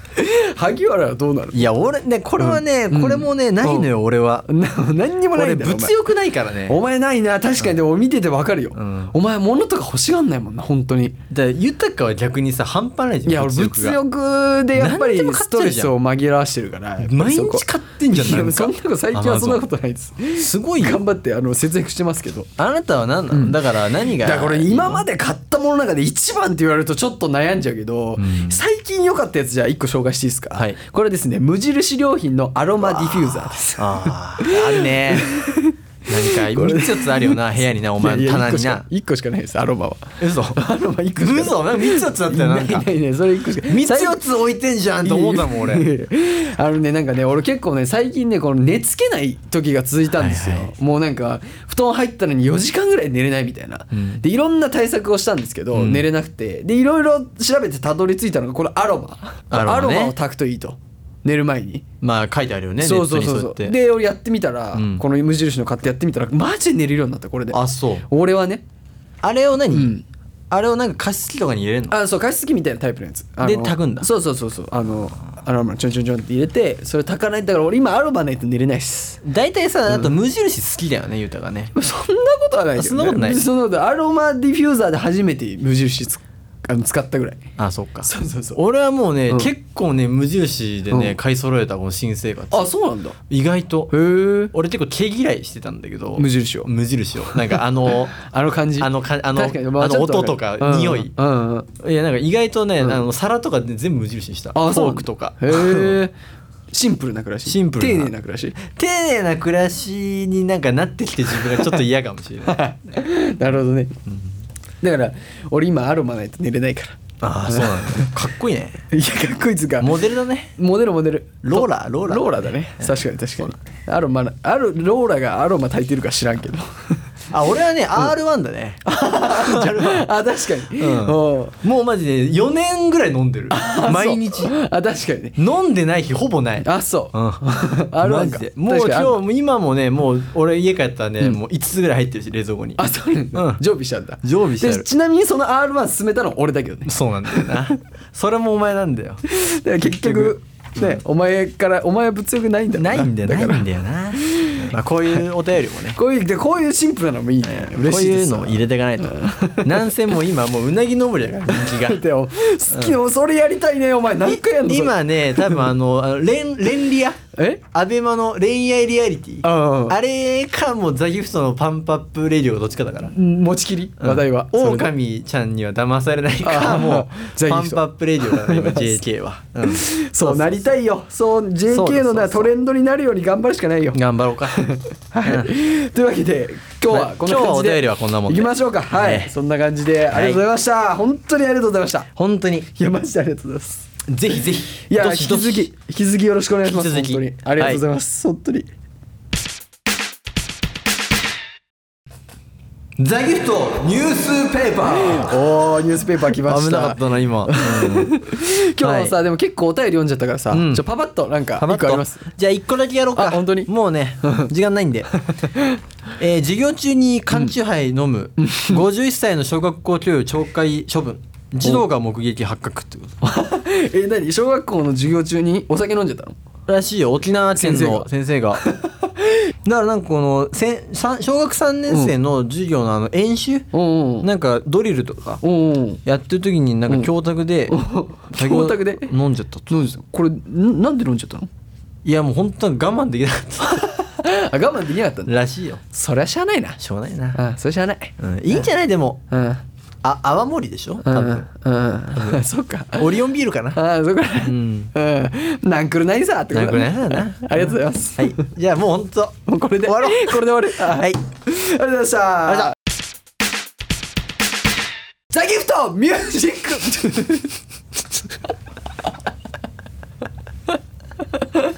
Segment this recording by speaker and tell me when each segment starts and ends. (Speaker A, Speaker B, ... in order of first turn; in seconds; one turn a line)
Speaker A: 0.2-1.7
Speaker B: 1.5-4.5
Speaker A: 2.4-3.9
Speaker A: 4.5-5.9
Speaker B: 5.3-6.8
Speaker A: 6.7-11.2
Speaker B: 8.7-9.1
Speaker B: 11.3-14.0
Speaker A: 13.3-22.5
Speaker B: 14.7-15.9
Speaker B: 17.0-19.6
Speaker B: 20.3-21.0
Speaker B: 22.6-25.0
Speaker A: 23.3-23.6
Speaker A: 24.1-37.4
Speaker B: 28.2-28.6
Speaker B: 32.8-35.5
Speaker B: 36.1-38.8
Speaker A: 38.0-44.3
Speaker B: 40.2-40.6
Speaker B: 41.2-42.9
Speaker B: 43.6-45.9
Speaker A: 45.0-61.8
Speaker B: 50.1-50.7
Speaker B: 53.9-54.2
Speaker B: 55.7-56.1
Speaker B: 59.5-60.1
Speaker B: 62.0-63.7
Speaker A: 62.8-68.6
Speaker B: 64.7-65.0
Speaker B: 67.5-68.0
Speaker B: 69.2-69.9
Speaker A: 69.7-70.0
Speaker B: 70.5-72.0
Speaker A: 71.9-79.2
Speaker B: 73.4-74.1
Speaker B: 79.2-81.7
Speaker A: 81.7-87.5
Speaker B: 82.8-83.4
Speaker B: 87.6-92.7
Speaker A: 88.0-88.6
Speaker A: 90.9-91.2
Speaker A: 92.5-93.2
Speaker B: 93.3-93.9
Speaker A: 93.9-94.5
Speaker B: 94.5-98.2
Speaker A: 96.2-96.7
Speaker A: 97.3-101.7
Speaker B: 98.8-101.1
Speaker B: 101.8-106.0
Speaker A: 104.5-106.1
Speaker A: 106.7-108.6
Speaker B: 107.4-112.6
Speaker A: 112.4-114.0
Speaker A: 114.8-118.1
Speaker B: 117.2-118.8
Speaker A: 118.9-120.0
Speaker B: 119.8-120.5
Speaker A: 120.6-127.0
Speaker B: 121.4-123.0
Speaker B: 127.3-130.1
Speaker A: 128.8-131.6
Speaker B: 130.8-134.5
Speaker A: 133.5-135.4
Speaker B: 135.4-142.8
Speaker A: 136.6-139.2
Speaker A: 142.8-147.7
Speaker B: 143.3-143.6
Speaker B: 144.2-144.9
Speaker B: 146.8-149.2
Speaker A: 149.3-155.2
Speaker B: 149.8-151.0
Speaker B: 152.7-156.0
Speaker A: 155.9-159.9
Speaker B: 157.4-162.0
Speaker A: 161.5-165.6
Speaker B: 162.7-162.9
Speaker B: 164.2-173.1
Speaker A: 167.3-167.6
Speaker A: 169.4-170.0
Speaker A: 173.1-174.9
Speaker B: 174.0-180.7
Speaker A: 176.4-179.0
Speaker A: 179.6-192.1
Speaker B: 181.7-182.5
Speaker B: 183.9-184.6
Speaker B: 185.2-185.6
Speaker B: 186.9-189.3
Speaker B: 190.1-190.4
Speaker B: 192.1-192.7
Speaker A: 192.7-193.9
Speaker B: 194.1-195.7
Speaker A: 194.8-198.7
Speaker B: 196.6-197.8
Speaker B: 203.0-205.3
Speaker A: 204.7-212.3
Speaker B: 206.3-208.2
Speaker B: 208.8-209.1
Speaker B: 210.5-210.8
Speaker B: 211.6-215.1
Speaker A: 213.2-213.7
Speaker A: 214.2-214.5
Speaker A: 215.2-215.8
Speaker B: 216.2-223.1
Speaker A: 218.4-218.8
Speaker A: 223.2-226.3
Speaker B: 226.7-228.6
Speaker A: 227.6-229.5
Speaker B: 229.6-233.7
Speaker A: 233.7-234.3
Speaker B: 234.2-235.4
Speaker A: 235.4-236.0
Speaker B: 236.0-237.8
Speaker A: 237.7-239.1
Speaker B: 238.3-239.7
Speaker A: 239.7-241.5
Speaker B: 242.0-243.9
Speaker A: 243.6-245.3
Speaker B: 245.2-245.8
Speaker A: 245.9-246.8
Speaker B: 246.8-247.4
Speaker A: 247.3-248.7
Speaker B: 248.2-249.2
Speaker A: 249.3-249.6
Speaker B: 250.0-251.4
Speaker A: 251.0-253.1
Speaker B: 252.1-252.4
Speaker B: 252.9-253.8
Speaker A: 253.7-258.5
Speaker B: 254.4-254.9
Speaker B: 256.5-261.2
Speaker A: 259.4-262.8
Speaker B: 262.5-262.7
Speaker A: 265.3-267.5